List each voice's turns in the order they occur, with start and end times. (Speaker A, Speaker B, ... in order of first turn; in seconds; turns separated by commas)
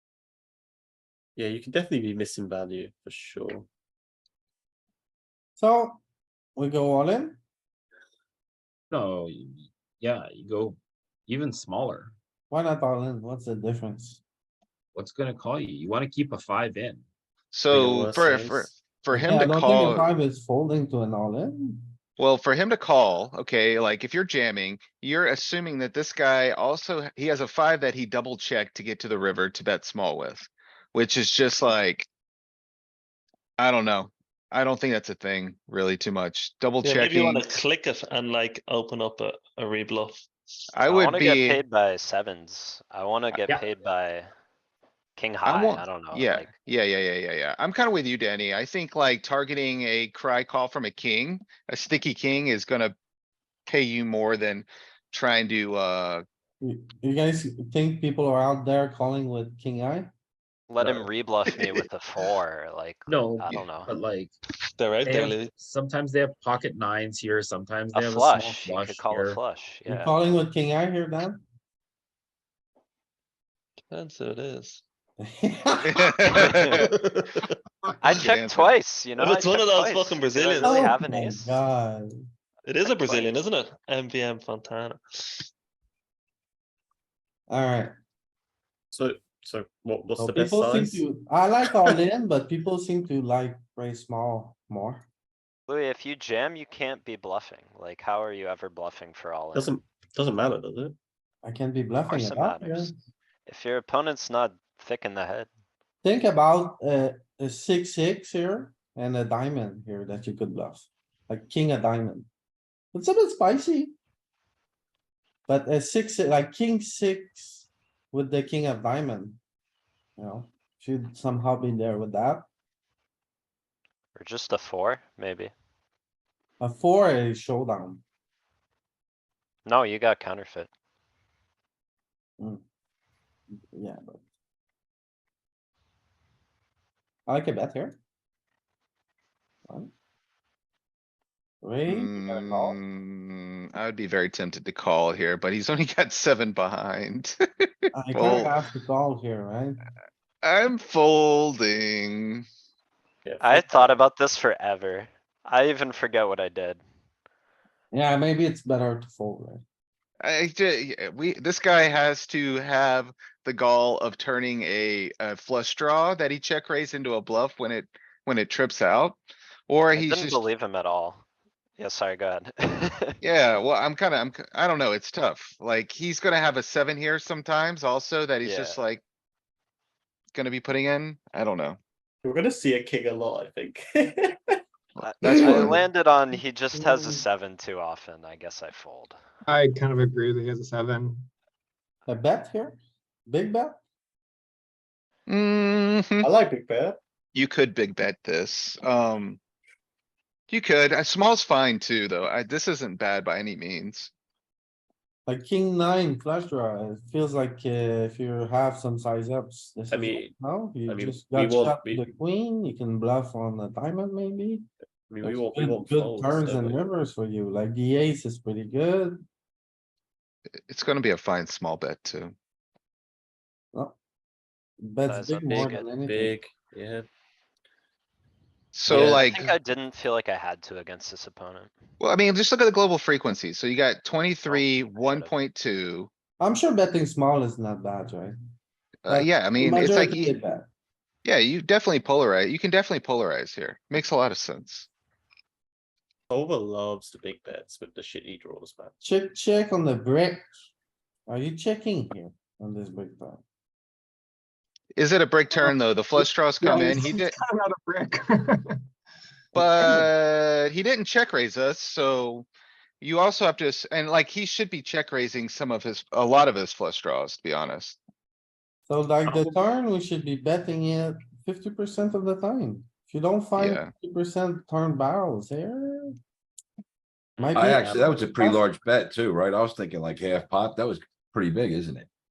Speaker A: 1.4-3.7, Speaker B: 5.6-6.0, Speaker B: 6.5-7.4, Speaker C: 8.9-12.1, Speaker B: 12.5-14.2, Speaker C: 14.9-17.1, Speaker D: 17.5-20.1, Speaker A: 17.7-18.8, Speaker B: 19.1-21.9, Speaker D: 22.2-32.1, Speaker D: 33.6-37.5, Speaker E: 36.8-40.2, Speaker D: 40.7-41.6, Speaker F: 40.9-44.3, Speaker C: 43.3-43.6, Speaker F: 45.1-46.5, Speaker D: 45.4-52.9, Speaker D: 53.7-56.2, Speaker B: 56.6-60.1, Speaker F: 60.7-63.9, Speaker C: 60.8-61.6, Speaker C: 63.1-64.3, Speaker E: 64.8-65.5, Speaker C: 65.0-69.4, Speaker F: 67.9-70.1, Speaker B: 69.9-71.4, Speaker E: 73.9-74.8, Speaker B: 75.2-76.3, Speaker D: 75.8-76.8, Speaker E: 76.8-77.4, Speaker F: 78.0-81.5, Speaker D: 78.0-78.8, Speaker E: 79.2-80.9, Speaker B: 80.6-82.1, Speaker E: 82.7-85.4, Speaker F: 82.8-83.4, Speaker B: 87.5-87.9, Speaker A: 88.9-91.0, Speaker B: 90.2-95.0, Speaker F: 95.7-99.8, Speaker A: 99.5-101.0, Speaker B: 101.4-102.9, Speaker F: 102.0-102.9, Speaker F: 103.5-105.5, Speaker B: 106.0-112.3, Speaker B: 112.9-113.9, Speaker B: 115.5-119.4, Speaker B: 120.2-122.5, Speaker F: 124.1-125.5, Speaker B: 126.6-128.0, Speaker F: 129.7-130.7, Speaker B: 133.7-134.2, Speaker B: 137.3-138.0, Speaker B: 141.6-142.8, Speaker D: 141.9-147.4, Speaker B: 147.9-149.8, Speaker D: 148.1-148.5, Speaker D: 150.4-152.4, Speaker A: 153.2-153.9, Speaker F: 153.4-156.8, Speaker B: 157.9-159.6, Speaker D: 160.2-170.4, Speaker F: 169.9-171.2, Speaker F: 171.8-173.2, Speaker D: 173.2-179.0, Speaker F: 178.4-178.8, Speaker D: 180.3-181.8, Speaker A: 182.2-184.3, Speaker D: 185.0-185.8, Speaker F: 185.0-189.1, Speaker G: 189.4-191.3, Speaker B: 192.1-193.8, Speaker D: 195.3-196.3, Speaker A: 196.2-197.0, Speaker D: 197.3-199.4, Speaker D: 200.5-204.1, Speaker B: 205.3-214.7, Speaker A: 209.9-210.3, Speaker A: 210.9-212.1, Speaker A: 215.1-216.8, Speaker B: 215.2-219.2, Speaker D: 220.7-222.3, Speaker B: 224.8-226.3, Speaker F: 225.0-225.9, Speaker A: 226.0-227.1, Speaker D: 228.7-229.5, Speaker F: 228.9-231.7, Speaker D: 232.0-236.1, Speaker F: 234.5-235.3, Speaker B: 236.4-238.3, Speaker D: 239.0-240.3, Speaker B: 239.1-240.7, Speaker D: 241.2-244.9, Speaker A: 246.3-248.9, Speaker B: 249.0-250.5, Speaker B: 251.3-253.4, Speaker D: 254.9-257.4, Speaker G: 255.5-258.8, Speaker B: 259.5-260.1, Speaker D: 259.6-262.5, Speaker D: 263.0-268.0, Speaker B: 268.9-276.1, Speaker D: 273.6-273.9, Speaker B: 277.4-278.6, Speaker H: 277.5-282.1